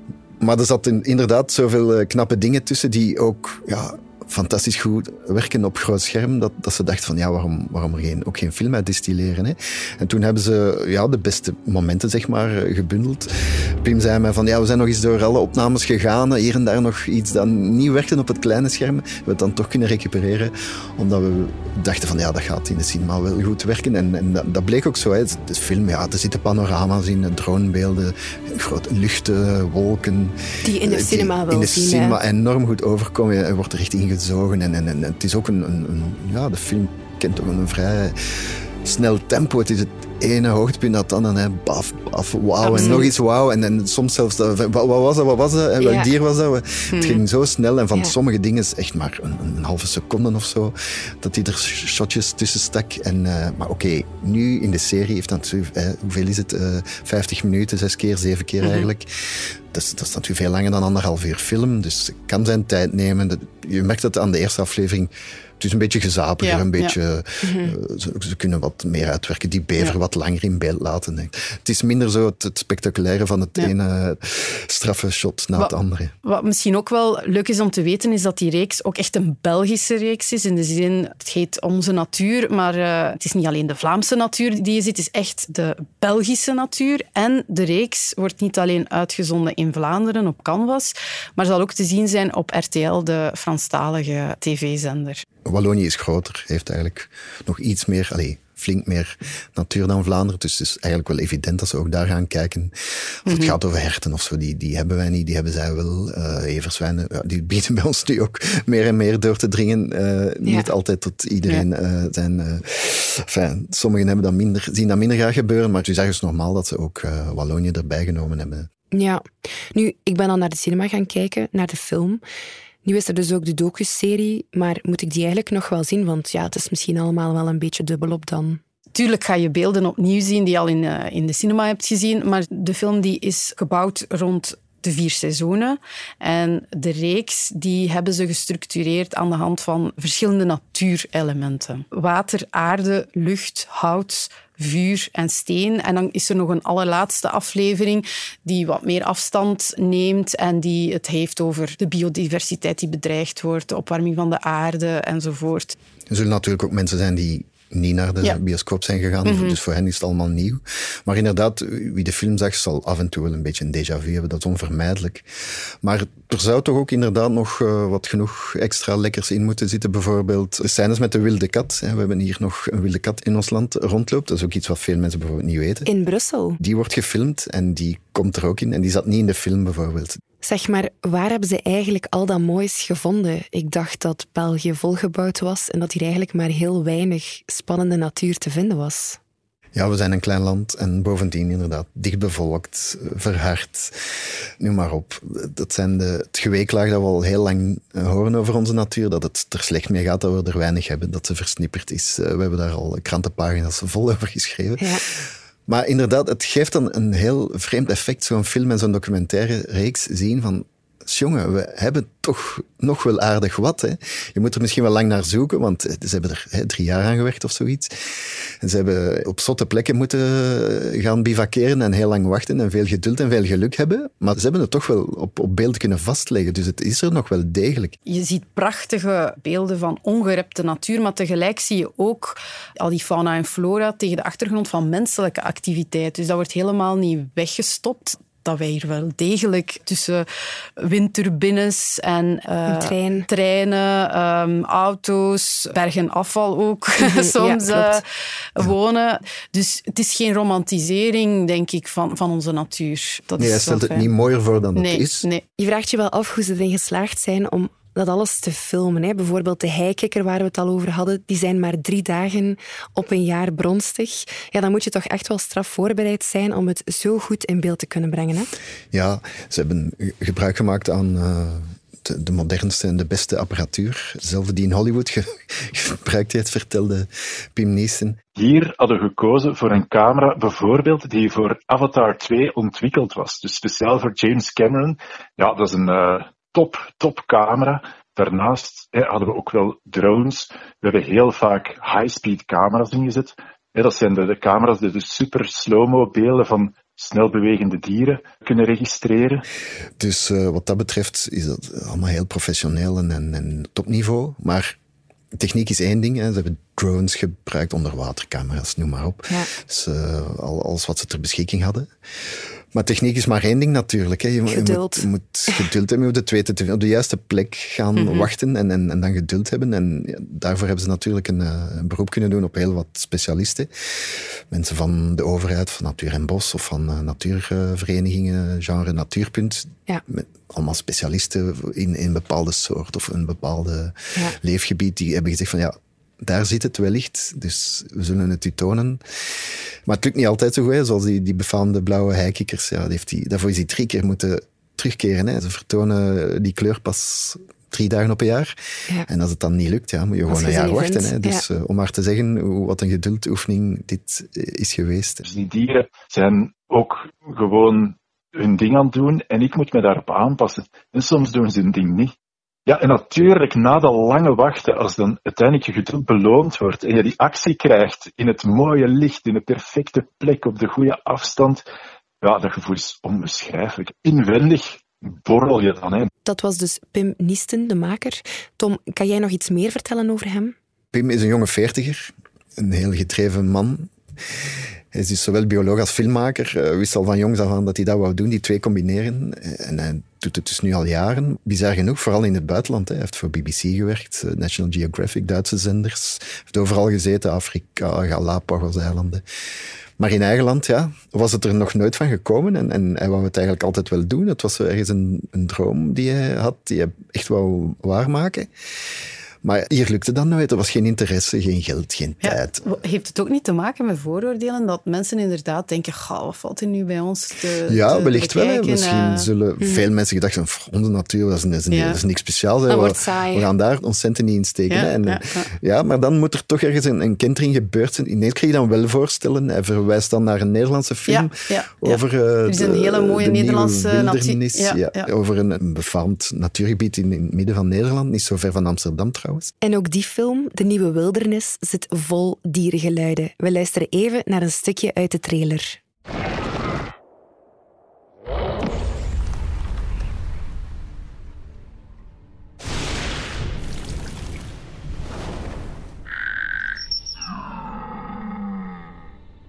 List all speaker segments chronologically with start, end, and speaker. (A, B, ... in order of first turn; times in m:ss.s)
0:00.4-0:13.3 A
0:13.8-1:16.1 A
0:30.6-0:32.2 B
0:42.7-0:43.1 C
0:42.7-0:43.1 B
0:45.8-0:46.1 B
0:46.9-0:47.2 C
1:06.4-1:06.9 C
1:07.4-1:07.8 B
1:16.2-1:35.2 C
1:35.4-1:42.7 A
1:43.2-1:58.7 A
1:43.3-1:43.6 C
1:58.9-2:02.2 B
2:02.8-2:08.6 B
2:09.0-2:35.8 C
2:36.1-2:45.3 A
2:39.2-2:39.6 C
2:45.8-2:55.9 A
2:55.9-2:56.6 B
2:56.6-3:00.2 A
3:00.4-3:09.2 B
3:09.8-3:13.9 A
3:14.6-3:38.0 A
3:38.6-3:48.0 A
3:48.1-4:00.3 C
4:00.8-4:08.0 C
4:02.7-4:03.3 B
4:07.0-4:08.0 B
4:08.6-4:14.1 C
4:13.4-4:15.3 A
4:14.8-4:15.4 C
4:15.6-4:28.5 B
4:28.9-4:38.2 A
4:38.4-4:59.4 D
5:00.0-5:04.8 A
5:05.3-5:11.9 A
5:12.7-5:39.0 A
5:14.5-5:15.7 B
5:18.0-5:18.3 C
5:39.9-5:48.5 A
5:49.1-5:55.2 A
5:50.3-5:51.4 B
5:55.2-6:02.1 D
6:02.7-6:11.6 D
6:12.2-6:16.1 D
6:16.2-6:20.6 B
6:20.9-6:23.9 A
6:24.9-6:39.2 A
6:40.0-6:48.5 A
6:49.4-6:52.6 A
6:52.2-6:59.3 C
6:57.7-7:19.5 A
6:59.6-6:59.9 B
7:01.7-7:02.0 C
7:02.7-7:03.5 B
7:04.7-7:05.5 C
7:11.1-7:15.1 C
7:19.6-7:25.8 B